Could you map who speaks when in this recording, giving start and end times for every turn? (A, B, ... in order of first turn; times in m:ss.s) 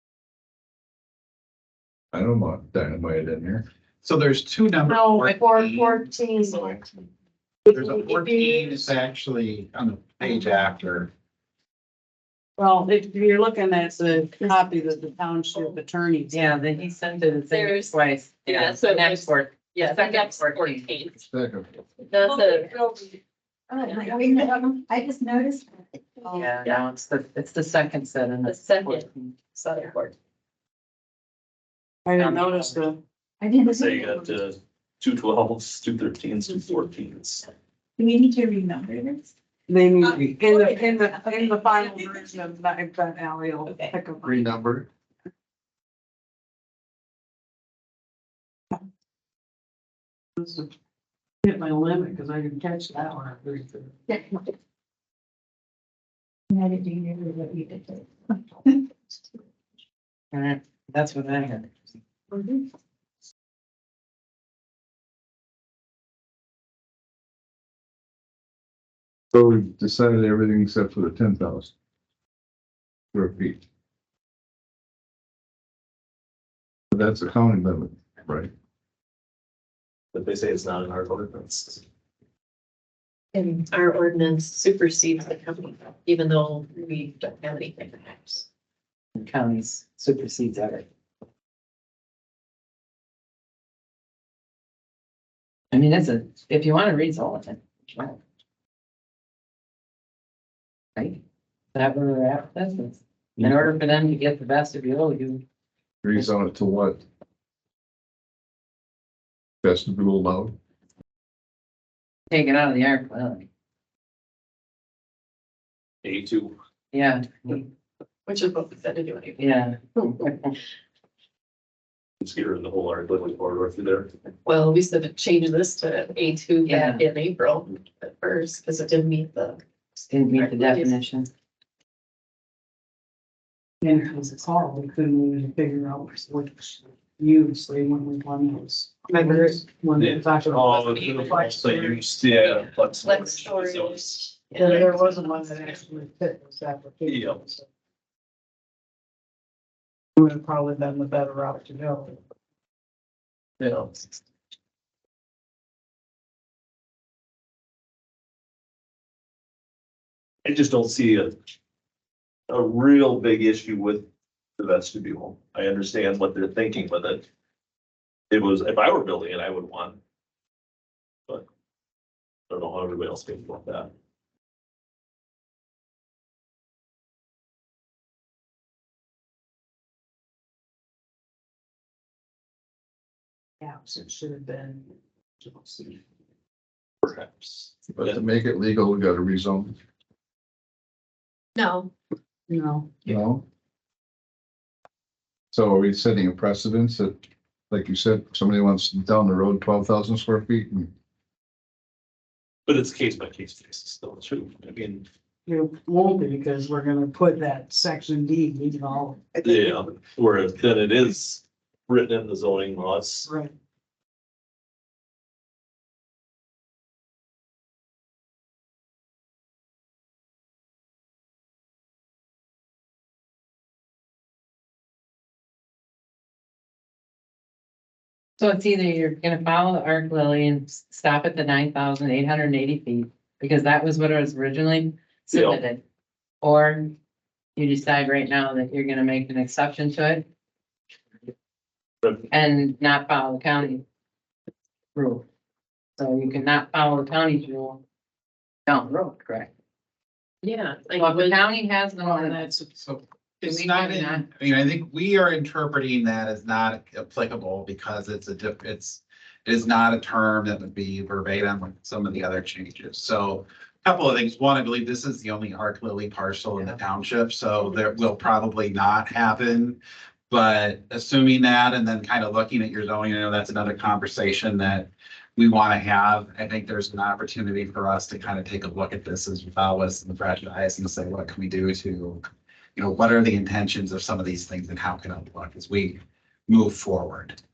0:02.1-0:03.6 A
0:04.0-0:06.8 B
0:04.9-0:06.7 C
0:07.7-0:08.9 C
0:07.7-0:11.1 B
0:12.6-0:16.6 C
0:14.4-0:14.8 D
0:16.3-0:20.9 E
0:17.5-0:21.2 F
0:21.3-0:21.7 A
0:22.0-0:22.8 F
0:22.3-0:22.8 C
0:22.9-0:23.2 D
0:23.7-0:26.3 D
0:26.2-0:26.5 C
0:26.3-0:29.3 E
0:26.5-0:26.8 F
0:28.4-0:30.1 F
0:32.0-0:33.0 C
0:32.1-0:32.8 E
0:33.4-0:34.3 D
0:33.6-0:37.5 G
0:38.0-0:39.3 D
0:39.7-0:44.5 C
0:40.1-0:42.3 D
0:44.2-0:44.9 A
0:50.4-0:50.7 C
0:51.4-0:54.0 C
0:54.1-0:54.4 D
0:56.5-0:58.8 D
1:00.3-1:01.7 E
1:02.3-1:02.6 F
1:09.3-1:11.7 A
1:13.1-1:13.6 A
1:16.9-1:18.5 A
1:20.1-1:21.8 G
1:23.3-1:28.4 F
1:29.2-1:30.8 E
1:35.7-1:38.2 E
1:41.0-1:41.2 E
1:41.7-1:45.4 E
1:43.4-1:43.7 A
1:46.0-1:47.0 A
1:49.6-1:50.5 A
1:52.3-1:53.5 E
1:56.0-1:56.6 G
1:56.9-1:57.7 E
1:58.2-2:00.3 F
1:59.4-2:00.6 E
2:02.2-2:04.1 G
2:04.4-2:09.6 F
2:06.6-2:07.0 E
2:10.1-2:11.3 E
2:10.3-2:11.0 F
2:13.8-2:22.1 C
2:19.1-2:19.6 F
2:20.0-2:24.8 G
2:20.8-2:21.3 F
2:22.2-2:25.8 F
2:24.6-2:27.6 C
2:27.0-2:27.5 G
2:30.2-2:32.2 C
2:33.6-2:34.0 G
2:40.4-2:41.4 G
2:42.5-2:47.2 G
2:48.3-2:50.0 G
2:52.5-2:53.9 G
3:03.6-3:06.0 C
3:07.0-3:08.2 G
3:07.9-3:09.7 A
3:11.6-3:11.9 F
3:12.5-3:12.9 C
3:13.0-3:13.4 A
3:15.5-3:20.9 A
3:22.6-3:25.1 G
3:25.4-3:29.8 C
3:29.4-3:33.3 G
3:33.2-3:33.5 C
3:48.4-3:55.8 E
3:55.3-3:55.6 G
3:56.4-3:56.9 E
3:57.6-4:00.2 E
4:02.3-4:03.8 E
4:04.9-4:05.2 E
4:06.0-4:07.8 E
4:08.7-4:09.5 E
4:10.4-4:11.5 F
4:10.9-4:12.6 E
4:12.0-4:12.6 F
4:12.7-4:42.2 B
4:13.4-4:14.2 E
4:42.8-4:47.4 B